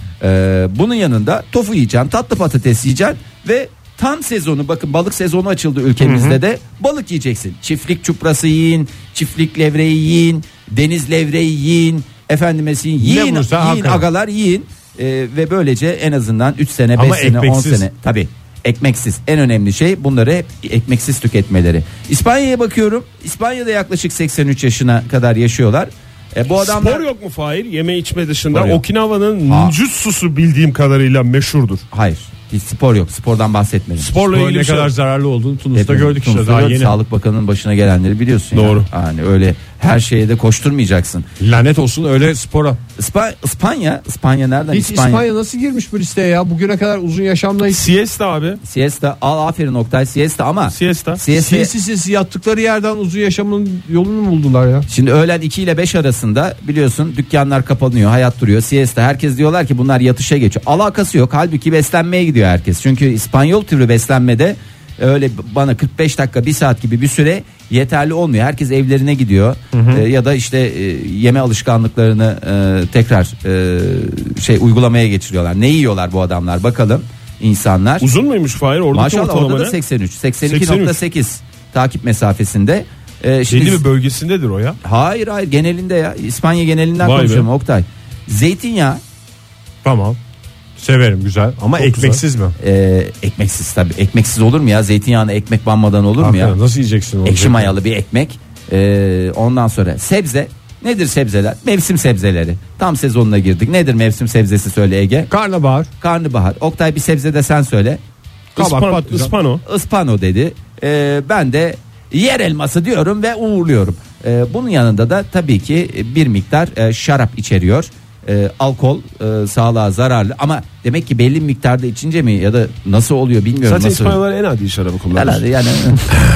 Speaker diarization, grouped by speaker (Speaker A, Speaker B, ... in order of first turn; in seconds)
Speaker A: 0.2-27.0, 28.5-28.8, 29.4-29.8, 31.9-34.1, 35.7-41.3, 43.0-45.3, 48.6-51.7, 54.9-78.1, 78.9-83.8, 84.8-89.0, 92.6-96.6, 97.2-105.3, 106.0-108.0, 109.6-124.2, 125.2-126.1
Speaker B: 6.0-6.4, 13.0-14.1, 16.9-17.9, 34.2-37.0, 41.4-42.8, 44.7-47.8, 51.3-54.9, 69.7-70.0, 89.8-90.2, 90.8-92.5, 96.2-97.7, 105.3-105.9, 108.5-109.3
Speaker C: 26.6-31.8, 34.0-34.9, 38.5-38.9, 47.7-48.6, 50.7-51.2, 78.0-79.8, 80.5-81.0, 83.5-84.8, 87.0-87.5, 91.8-92.2, 108.5-109.6, 123.7-125.4